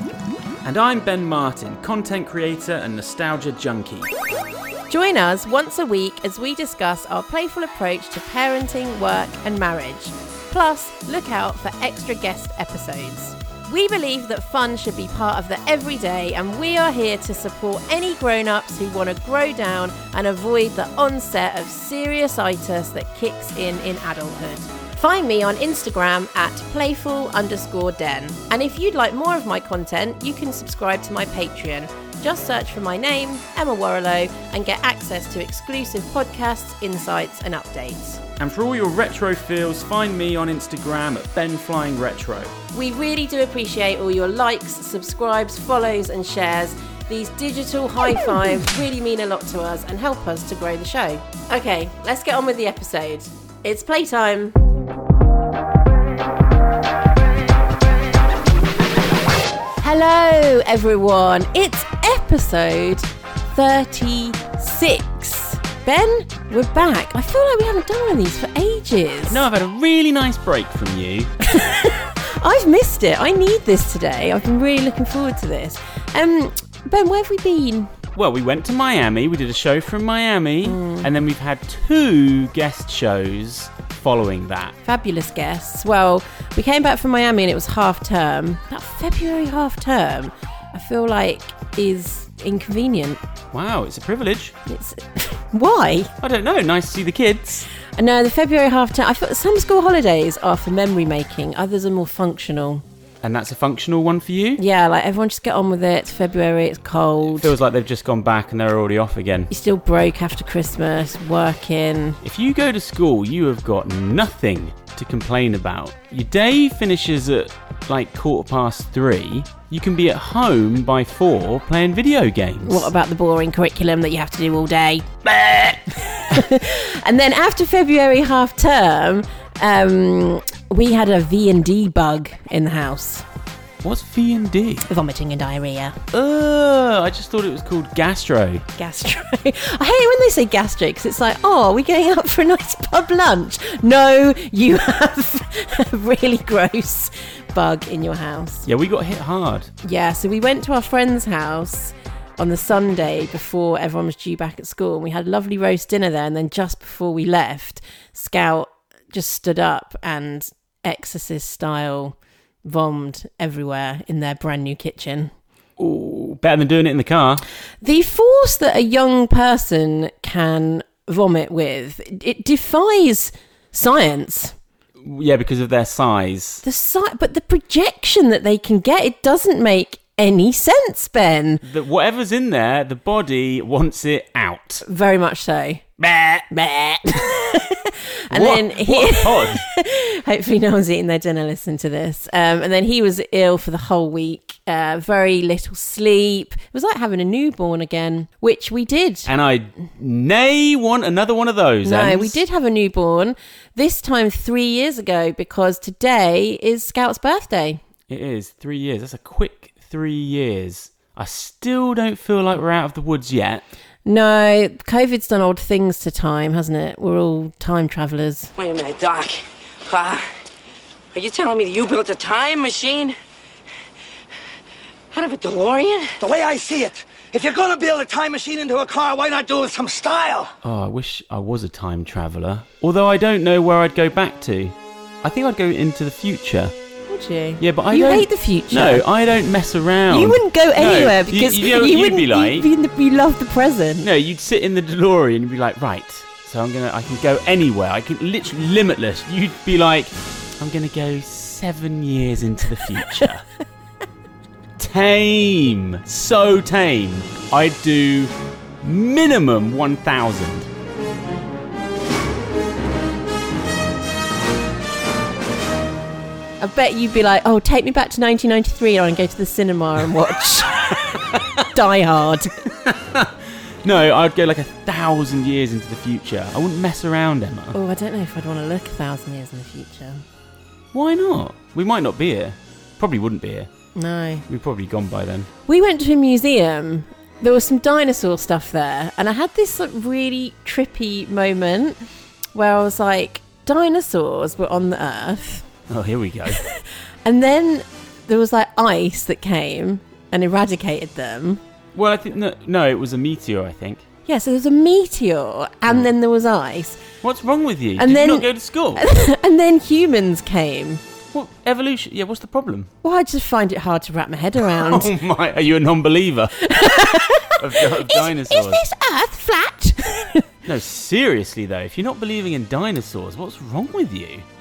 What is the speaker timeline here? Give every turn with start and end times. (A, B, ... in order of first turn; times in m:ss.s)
0:00.6-0:04.1 A
0:04.9-0:38.2 B
0:38.4-0:42.6 A
0:42.7-0:54.6 B
0:59.8-1:09.4 B
1:09.3-1:11.3 A
1:11.4-1:17.9 B
1:18.1-1:24.8 A
1:20.6-1:21.1 B
1:24.8-1:33.2 B
1:33.5-1:34.6 A
1:34.6-1:36.1 B
1:36.2-1:37.7 A
1:38.0-1:42.8 B
1:43.2-1:44.6 A
1:44.6-1:47.5 B
1:47.3-1:49.5 A
1:49.5-1:52.2 B
1:52.2-2:02.9 A
2:02.6-2:13.2 B
2:05.3-2:05.6 A
2:13.8-2:14.8 A
2:14.8-2:16.0 B
2:16.1-2:18.6 A
2:18.8-2:28.7 B
2:28.6-2:29.7 A
2:29.8-2:45.3 B
2:45.8-2:47.4 A
2:47.8-2:54.6 B
2:55.0-2:56.6 A
2:56.6-3:01.6 B
3:01.6-3:04.8 A
3:04.8-3:05.8 B
3:06.0-3:06.5 A
3:06.5-3:19.3 B
3:08.3-3:09.6 A
3:19.2-3:22.4 A
3:21.8-3:27.8 B
3:28.1-3:33.6 A
3:34.0-3:38.5 B
3:38.6-3:40.3 C
3:41.1-3:43.2 C
3:45.1-3:46.2 C
3:46.2-3:50.5 D
3:50.6-3:56.7 A
3:57.1-3:59.0 B
3:57.6-4:02.7 A
4:00.1-4:04.1 B
4:04.0-4:13.5 A
4:14.8-4:20.7 A
4:26.6-4:32.6 B
4:31.1-4:31.6 A
4:32.7-4:37.8 A
4:37.7-4:40.2 B
4:40.9-4:43.7 A
4:44.0-4:44.4 B
4:44.5-4:45.5 A
4:45.7-4:52.0 B
4:52.5-4:55.7 B
4:55.9-4:56.6 A
4:56.5-5:01.6 B
5:01.9-5:04.0 A
5:04.2-5:07.0 B
5:07.2-5:09.0 A
5:08.0-5:11.0 B
5:11.3-5:12.9 A
5:13.0-5:15.1 B
5:14.6-5:18.8 A
5:16.6-5:20.5 B
5:20.6-5:24.4 A